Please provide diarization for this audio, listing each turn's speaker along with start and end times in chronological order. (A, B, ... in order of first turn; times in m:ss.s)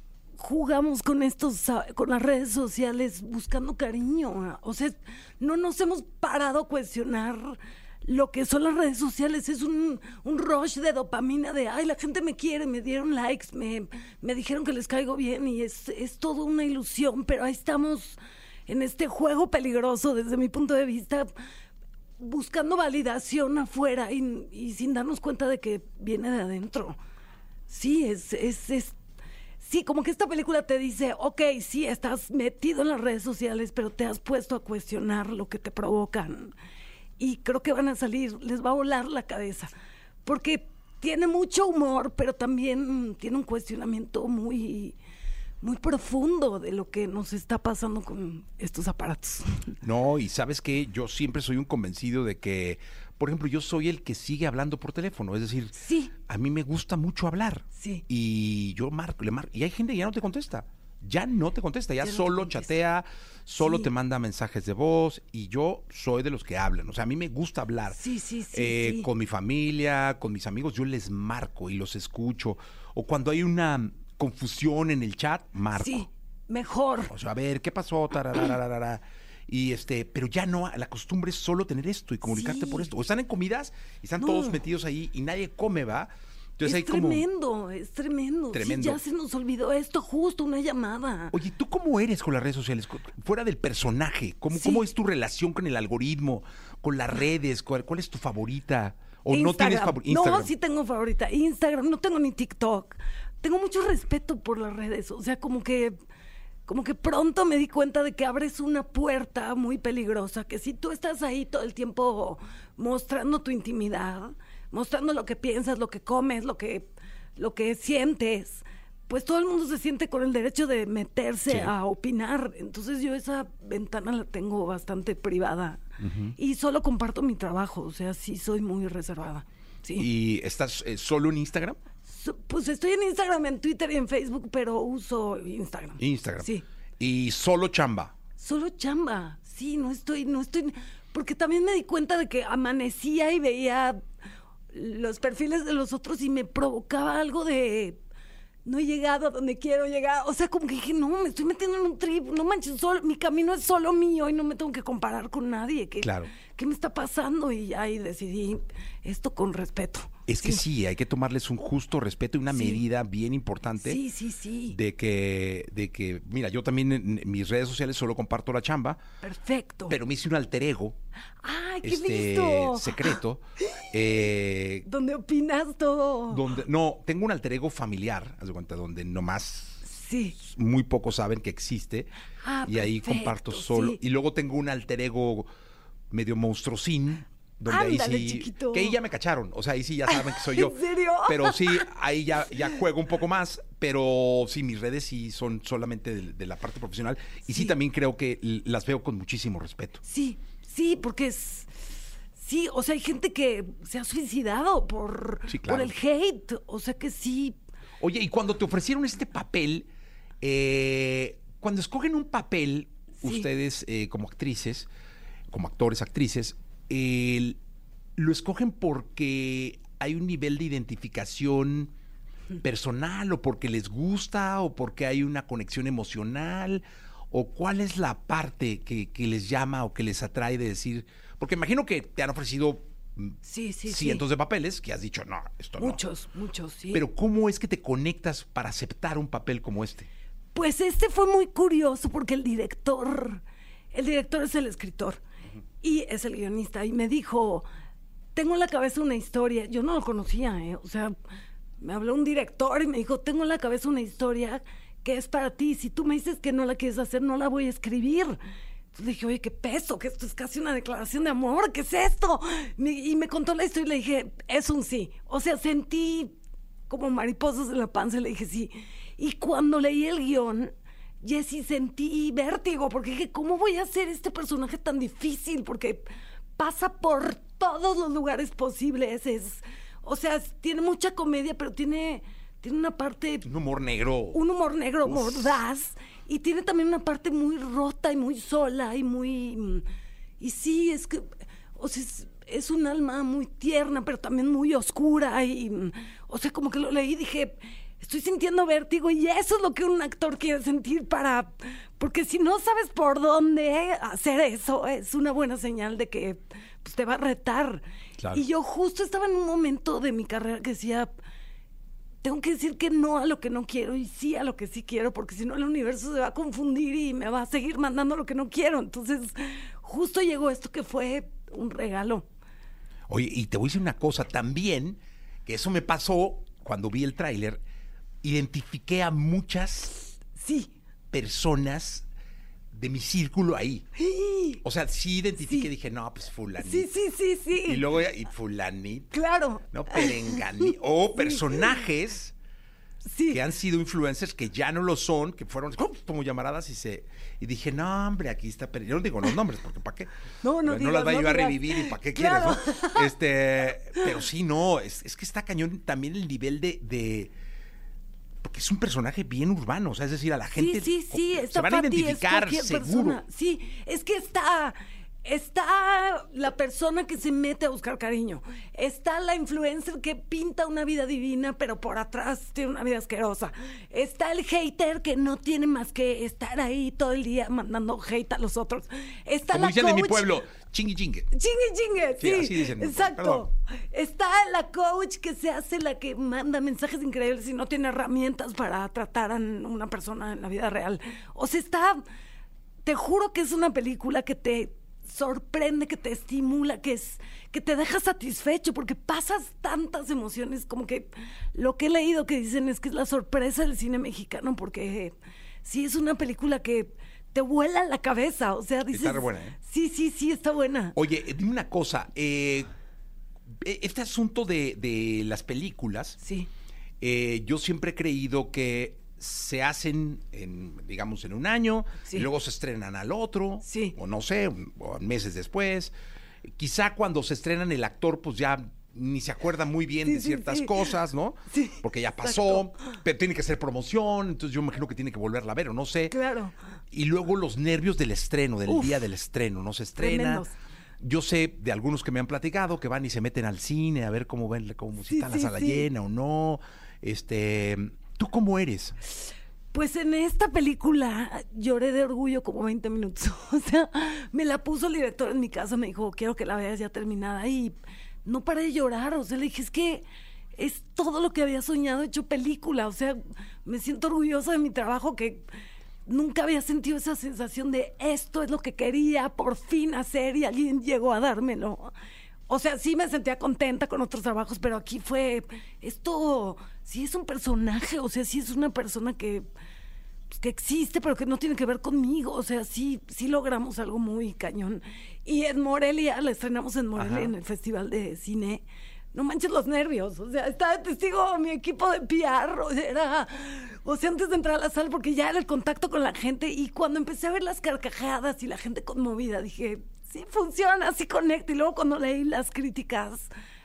0:00.4-0:21.3 A
0:22.2-0:27.0 A
0:27.7-0:29.0 A
0:29.6-0:36.5 A
0:37.2-0:39.7 A
0:40.2-0:45.0 A
0:45.6-0:49.7 A
0:49.8-0:55.7 B
0:55.8-0:56.1 A
0:56.2-1:08.0 B
0:57.8-0:58.0 A
1:02.0-1:02.7 A
1:03.6-1:03.9 A
1:07.9-1:09.1 A
1:08.5-1:16.0 B
1:15.7-1:17.1 A
1:17.1-1:27.2 B
1:22.2-1:22.9 A
1:24.2-1:24.5 A
1:26.6-1:31.3 A
1:28.5-1:29.0 B
1:31.3-1:40.5 B
1:34.5-1:34.8 A
1:39.3-1:46.0 A
1:46.6-2:05.8 A
2:01.5-2:01.7 B
2:06.0-2:06.4 B
2:06.4-2:10.1 A
2:10.0-2:11.8 B
2:12.1-2:16.6 A
2:16.0-2:16.5 B
2:17.0-2:18.1 B
2:18.4-2:24.0 A
2:24.7-2:28.0 A
2:28.6-2:40.6 A
2:36.0-2:36.3 B
2:40.3-2:44.0 B
2:42.5-2:42.8 A
2:43.8-2:44.8 A
2:44.7-2:49.0 B
2:49.2-2:50.0 A
2:49.9-2:51.0 B
2:51.4-2:53.2 A
2:51.8-2:54.9 B
2:54.8-2:56.4 A
2:56.3-3:02.1 B
2:59.8-3:00.4 A
3:02.4-3:04.0 A
3:02.6-3:05.5 B
3:06.1-3:20.0 B
3:07.6-3:09.0 A
3:10.1-3:11.9 A
3:17.4-3:17.8 A
3:20.0-3:21.7 A
3:22.4-3:27.6 A
3:25.5-3:25.9 B
3:28.0-3:29.9 B
3:30.4-3:34.9 B
3:33.2-3:33.5 A
3:35.5-3:37.6 B
3:38.2-3:41.9 B
3:42.6-3:56.0 B
3:53.4-3:54.2 A
3:55.8-3:57.0 A
3:56.9-4:00.1 B
4:00.5-4:05.2 A
4:05.8-4:07.6 A
4:08.3-4:11.2 A
4:11.8-4:18.4 A
4:18.9-4:26.3 A
4:26.9-4:43.4 A
4:43.4-4:44.4 B
4:44.3-4:49.8 A
4:45.0-4:45.6 B
4:50.4-5:11.1 A
5:12.2-5:22.2 A
5:23.1-5:27.6 B
5:28.2-5:30.0 B
5:30.4-5:30.7 A
5:31.1-5:32.0 B
5:32.7-5:33.8 B
5:34.0-5:34.6 A
5:34.6-5:36.9 B
5:35.4-5:35.7 A
5:36.6-5:37.8 A
5:37.6-5:39.2 B
5:39.1-5:41.8 A
5:39.7-5:42.3 B
5:43.0-5:43.4 A
5:43.3-5:50.1 B
5:50.4-5:53.1 A
5:50.6-5:57.3 B
5:58.4-6:03.2 B
6:00.5-6:20.4 A
6:19.5-6:21.3 B
6:21.3-6:32.0 A
6:22.2-6:23.5 B
6:32.8-6:51.0 A
6:48.9-6:49.6 B
6:50.9-6:52.7 B
6:53.6-6:56.2 B
6:56.2-6:56.5 A
6:57.0-7:05.9 B
7:03.6-7:04.0 A
7:06.6-7:16.1 B
7:10.0-7:10.9 A
7:11.5-7:12.7 A
7:16.1-7:16.5 A
7:16.9-7:20.5 B
7:18.7-7:19.0 A
7:20.0-7:20.5 A
7:21.0-7:29.0 B
7:25.0-7:25.8 A
7:29.7-7:40.0 A
7:40.6-7:45.5 A
7:46.0-7:51.9 A
7:52.5-7:59.5 A
8:00.3-8:23.3 A
8:07.0-8:07.3 B